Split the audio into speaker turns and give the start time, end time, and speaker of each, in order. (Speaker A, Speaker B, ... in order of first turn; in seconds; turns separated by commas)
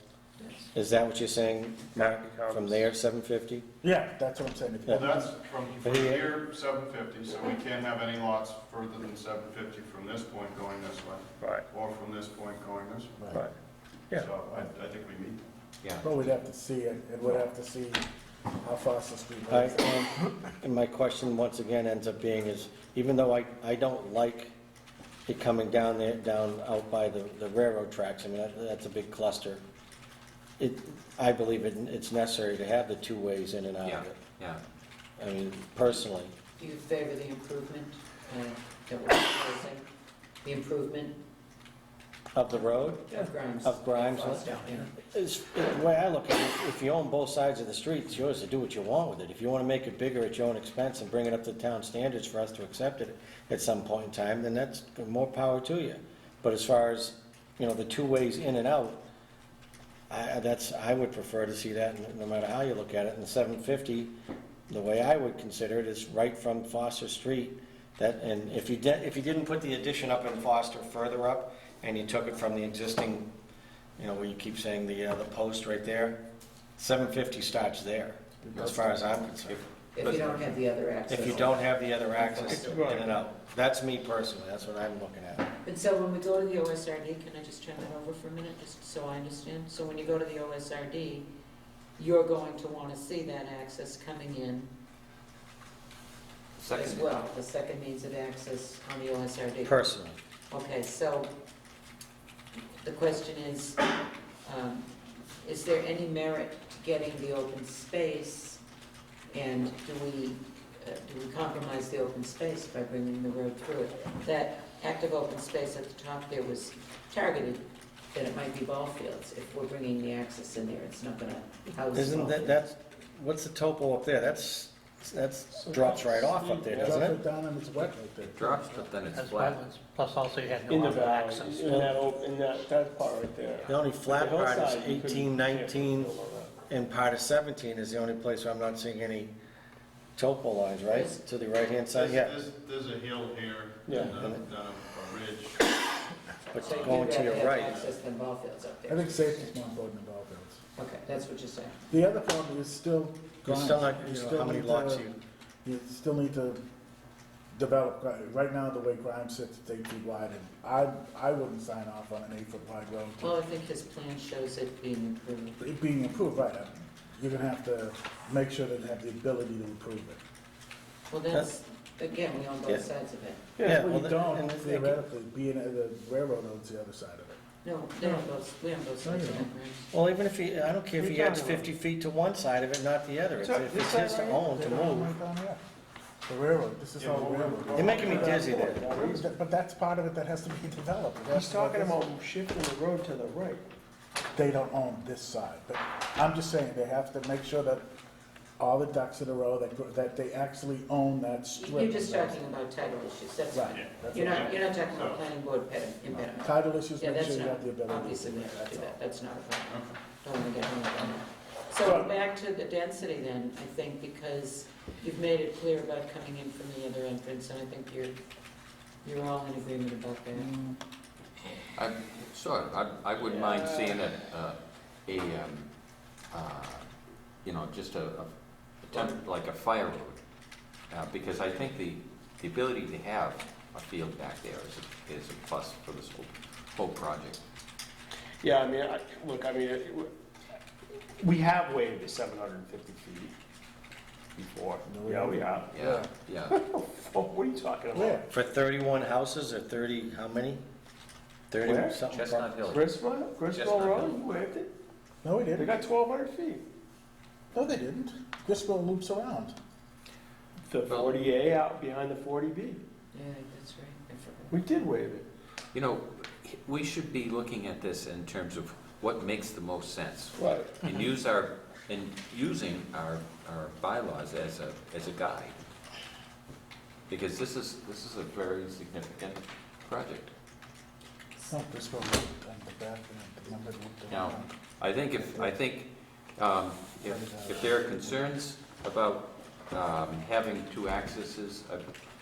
Speaker A: 0.4-0.7, Speaker B: 0.7-3.6, Speaker C: 2.0-2.8, Speaker D: 3.8-5.3, Speaker E: 4.9-13.3, Speaker B: 5.8-6.3, Speaker E: 14.1-15.4, Speaker F: 15.8-16.1, Speaker D: 16.0-18.0, Speaker D: 18.6-20.1, Speaker B: 19.5-24.5, Speaker B: 25.3-29.6, Speaker B: 30.6-34.1, Speaker F: 33.8-34.6, Speaker B: 35.2-36.3, Speaker A: 36.6-39.9, Speaker A: 40.4-41.2, Speaker B: 42.4-59.0, Speaker A: 43.1-44.9, Speaker B: 60.1-64.1, Speaker B: 64.7-73.3, Speaker B: 74.0-76.2, Speaker B: 76.8-79.6, Speaker F: 78.5-80.5, Speaker A: 80.0-83.2, Speaker B: 81.1-85.5, Speaker C: 82.5-83.1, Speaker A: 85.6-91.3, Speaker A: 92.0-94.7, Speaker F: 96.6-97.1, Speaker A: 96.7-99.8, Speaker B: 99.7-100.2, Speaker A: 100.5-101.3, Speaker A: 102.8-103.8, Speaker A: 104.4-108.6, Speaker A: 109.3-122.6, Speaker B: 121.9-127.2, Speaker C: 125.5-127.1, Speaker D: 126.8-128.6, Speaker F: 128.2-129.6, Speaker G: 129.0-132.0, Speaker C: 130.7-136.5, Speaker B: 131.7-131.9, Speaker B: 133.7-136.1, Speaker B: 136.7-139.3, Speaker B: 140.2-142.4, Speaker A: 140.9-141.2, Speaker E: 141.9-145.6, Speaker C: 143.9-144.2, Speaker B: 144.0-144.4, Speaker B: 146.5-147.8, Speaker A: 146.6-149.7, Speaker D: 148.9-150.6, Speaker A: 150.8-151.8, Speaker D: 151.9-155.1, Speaker B: 153.4-155.2, Speaker D: 155.7-156.6, Speaker D: 157.5-163.3, Speaker A: 163.2-165.6, Speaker D: 165.6-170.2, Speaker A: 171.1-173.5, Speaker B: 173.6-175.0, Speaker D: 173.7-177.4, Speaker A: 177.6-179.9, Speaker C: 178.0-178.3, Speaker D: 179.0-179.5, Speaker B: 179.9-185.2, Speaker C: 181.0-181.7, Speaker C: 183.4-184.5, Speaker D: 184.4-185.6, Speaker D: 186.3-192.0, Speaker E: 187.0-188.4, Speaker C: 187.2-189.3, Speaker B: 187.7-188.9, Speaker C: 191.3-193.6, Speaker D: 194.4-197.9, Speaker D: 198.6-202.4, Speaker A: 201.5-218.2, Speaker D: 203.5-204.6, Speaker E: 203.7-205.2, Speaker D: 206.4-209.0, Speaker E: 209.7-209.9, Speaker D: 211.8-212.1, Speaker A: 219.0-220.5, Speaker D: 220.3-220.8, Speaker F: 221.8-225.7, Speaker C: 223.2-224.0, Speaker F: 226.3-226.8, Speaker F: 227.4-230.2, Speaker F: 230.9-237.4, Speaker C: 238.4-240.1, Speaker C: 241.2-243.3, Speaker C: 244.4-245.8, Speaker D: 244.8-246.1, Speaker F: 245.7-246.6, Speaker C: 246.5-248.2, Speaker D: 247.9-248.2, Speaker B: 248.3-250.6, Speaker B: 251.5-252.5, Speaker C: 251.6-252.0, Speaker F: 252.1-254.2, Speaker C: 252.7-254.7, Speaker D: 255.2-255.8, Speaker C: 255.5-256.6, Speaker D: 257.5-259.6, Speaker C: 260.7-262.8, Speaker F: 260.9-261.2, Speaker A: 263.1-264.6, Speaker C: 264.5-265.3, Speaker F: 265.7-275.6, Speaker C: 270.4-271.0, Speaker F: 277.1-280.3, Speaker D: 281.4-284.5, Speaker F: 284.1-291.9, Speaker D: 285.2-285.5, Speaker D: 287.0-288.2